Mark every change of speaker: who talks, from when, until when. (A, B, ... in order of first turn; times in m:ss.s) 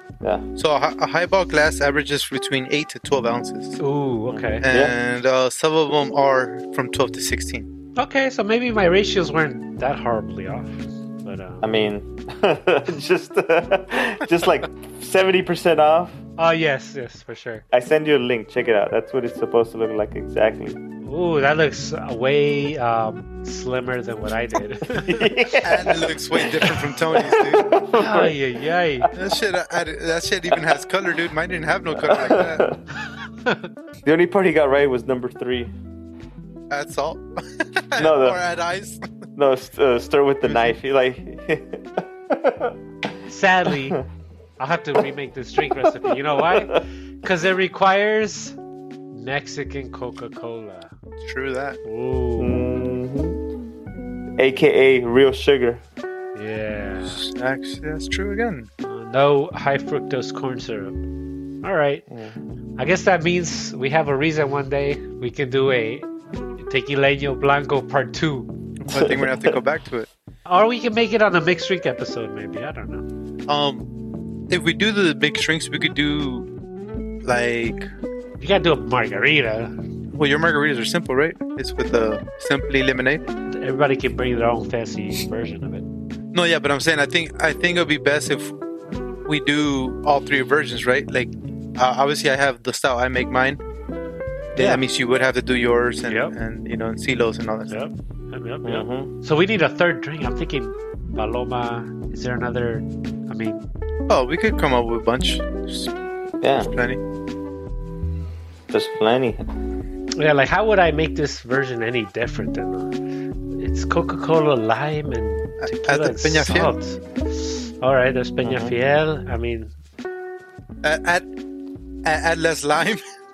0:00.6-0:03.8 A
0:03.8-0:04.7 B
0:04.3-0:04.9 C
0:04.6-0:07.7 A
0:08.0-0:11.7 B
0:11.6-0:16.2 C
0:16.4-0:17.6 B
0:17.7-0:20.8 C
0:21.0-0:25.6 B
0:24.9-0:28.4 C
0:25.6-0:27.7 A
0:27.9-0:29.1 B
0:29.1-0:32.7 A
0:31.9-0:32.8 C
0:33.1-0:33.7 B
0:34.0-0:35.7 C
0:36.7-0:39.1 A
0:38.0-0:38.4 C
0:39.4-0:42.8 C
0:40.4-0:40.7 A
0:43.3-0:44.0 B
0:43.7-0:44.0 C
0:44.6-0:48.6 B
0:46.0-0:46.8 C
0:49.1-0:50.9 B
0:51.2-0:51.8 A
0:51.8-0:52.6 B
0:52.4-0:53.4 C
0:54.4-0:55.8 C
0:56.4-0:57.2 B
0:57.1-0:58.7 A
0:58.8-1:00.9 B
1:01.6-1:02.0 B
1:02.8-1:06.1 B
1:06.6-1:08.5 B
1:08.9-1:10.1 A
1:08.9-1:09.6 C
1:10.5-1:13.0 B
1:13.5-1:13.9 A
1:14.5-1:16.5 A
1:17.2-1:17.9 A
1:18.4-1:19.7 B
1:20.2-1:23.2 A
1:23.5-1:25.9 B
1:26.3-1:28.5 A
1:29.2-1:33.6 A
1:34.5-1:37.7 A
1:36.1-1:36.3 B
1:37.7-1:43.6 B
1:38.6-1:39.1 C
1:44.1-1:45.9 A
1:46.4-1:46.7 C
1:46.6-1:47.0 A
1:48.7-1:49.4 C
1:50.2-1:52.9 B
1:53.6-1:59.7 B
1:55.6-1:56.7 A
1:58.4-1:58.7 C
2:00.8-2:01.3 A
2:02.0-2:03.0 A